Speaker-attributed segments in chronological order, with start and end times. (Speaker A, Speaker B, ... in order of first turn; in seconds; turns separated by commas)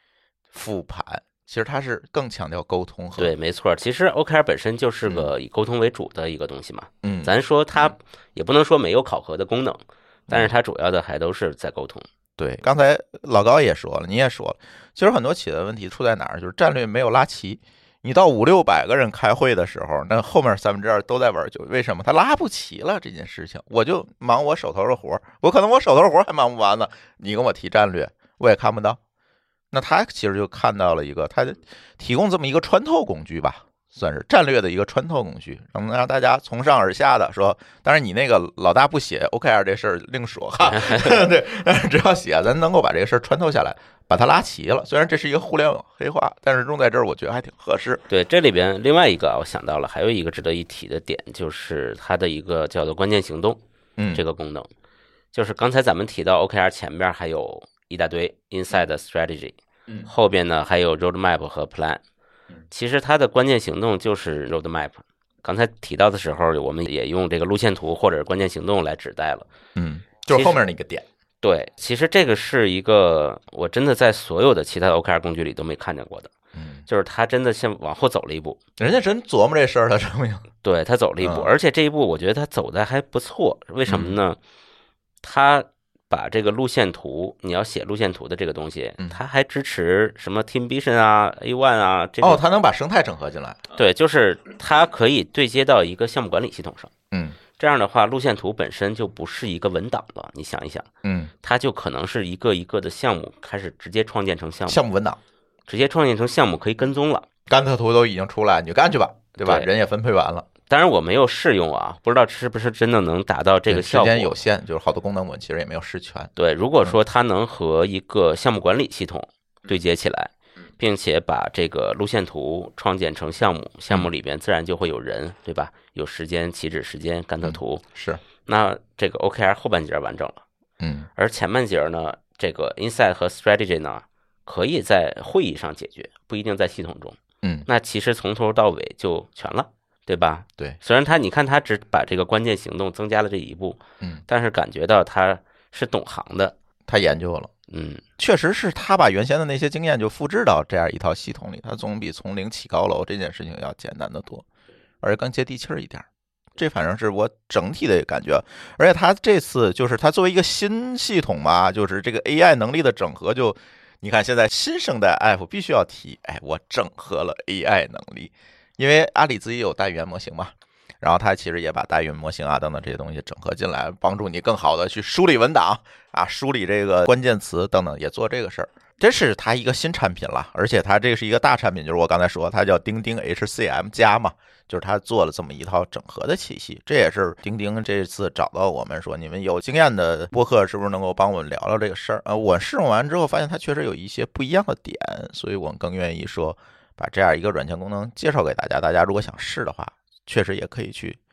Speaker A: 0.5-3.3, Speaker B: 3.2-12.1, Speaker A: 5.0-5.3, Speaker A: 7.0-7.9, Speaker A: 12.4-29.0, Speaker A: 29.7-48.0, Speaker B: 40.7-41.1, Speaker B: 48.1-53.6, Speaker B: 54.1-54.7, Speaker B: 55.3-62.0, Speaker B: 62.7-69.5, Speaker A: 69.7-71.0, Speaker B: 70.3-70.6, Speaker B: 71.4-76.3, Speaker A: 76.5-76.8, Speaker B: 76.9-78.6, Speaker A: 78.8-80.5, Speaker B: 80.6-84.4, Speaker A: 81.2-81.5, Speaker A: 83.8-84.2, Speaker B: 85.2-92.4, Speaker A: 92.2-93.6, Speaker B: 93.7-96.9, Speaker A: 97.1-97.4, Speaker B: 97.6-100.9, Speaker A: 101.0-101.3, Speaker B: 101.4-104.8, Speaker A: 104.7-105.2, Speaker B: 105.7-107.3, Speaker A: 107.5-110.5, Speaker B: 109.4-109.7, Speaker B: 110.7-114.3, Speaker A: 113.7-116.3, Speaker B: 116.4-127.8, Speaker A: 127.4-128.2, Speaker B: 128.4-130.4, Speaker A: 130.8-131.1, Speaker B: 131.2-146.5, Speaker A: 146.9-147.5, Speaker B: 147.7-148.0, Speaker A: 148.2-154.4, Speaker A: 155.0-201.2